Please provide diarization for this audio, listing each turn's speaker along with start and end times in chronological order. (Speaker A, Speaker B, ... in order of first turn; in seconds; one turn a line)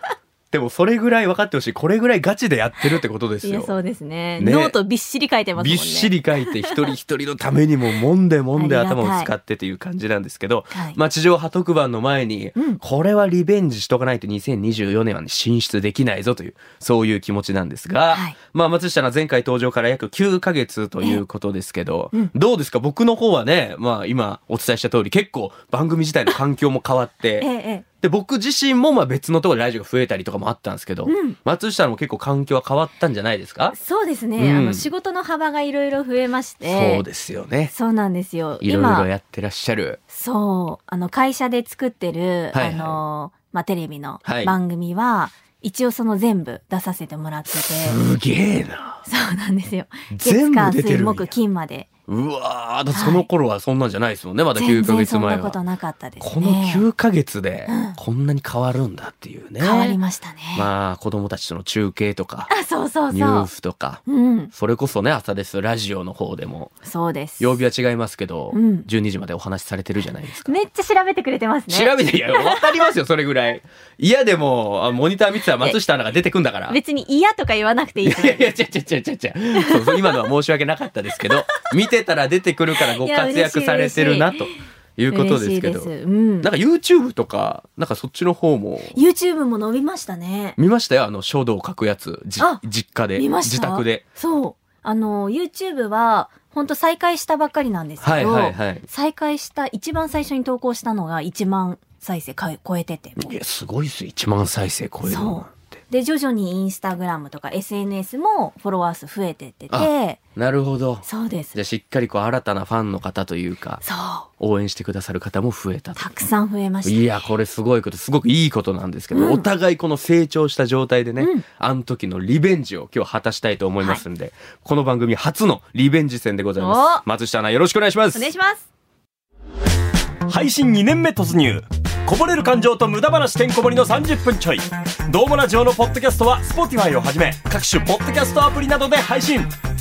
Speaker A: 0.5-3.8
Speaker B: 3.4-6.8
Speaker A: 4.4-4.8
Speaker A: 5.6-27.5
Speaker B: 8.6-9.3
Speaker B: 10.7-11.0
Speaker B: 18.1-18.4
Speaker B: 27.4-27.9
Speaker A: 28.0-33.8
Speaker B: 31.1-31.4
Speaker B: 33.7-37.0
Speaker A: 34.4-34.9
Speaker A: 36.6-37.7
Speaker B: 37.7-39.1
Speaker A: 38.6-40.0
Speaker B: 40.1-48.0
Speaker A: 42.5-43.0
Speaker A: 44.2-44.5
Speaker A: 47.5-49.0
Speaker B: 49.1-51.9
Speaker A: 50.1-51.3
Speaker A: 52.1-55.6
Speaker B: 52.9-53.3
Speaker B: 54.6-56.9
Speaker A: 56.2-60.0
Speaker B: 57.7-58.0
Speaker B: 59.6-60.7
Speaker A: 60.5-62.5
Speaker B: 62.5-63.5
Speaker A: 63.1-66.7
Speaker B: 64.1-64.5
Speaker B: 66.8-67.5
Speaker A: 67.4-70.5
Speaker B: 68.5-68.9
Speaker B: 70.5-72.8
Speaker A: 71.7-76.8
Speaker B: 76.7-78.5
Speaker A: 78.0-89.0
Speaker B: 79.6-80.3
Speaker B: 82.8-84.5
Speaker B: 85.1-86.5
Speaker B: 88.9-90.6
Speaker A: 90.6-94.0
Speaker B: 93.2-103.3
Speaker A: 98.0-98.8
Speaker A: 103.2-105.8
Speaker B: 105.0-110.2
Speaker A: 109.7-113.8
Speaker B: 111.0-111.5
Speaker B: 113.8-114.3
Speaker A: 114.4-116.2
Speaker B: 116.0-117.1
Speaker A: 116.8-128.3
Speaker B: 119.1-119.5
Speaker B: 121.2-121.5
Speaker B: 126.6-127.0
Speaker B: 128.1-128.7
Speaker C: 130.3-139.5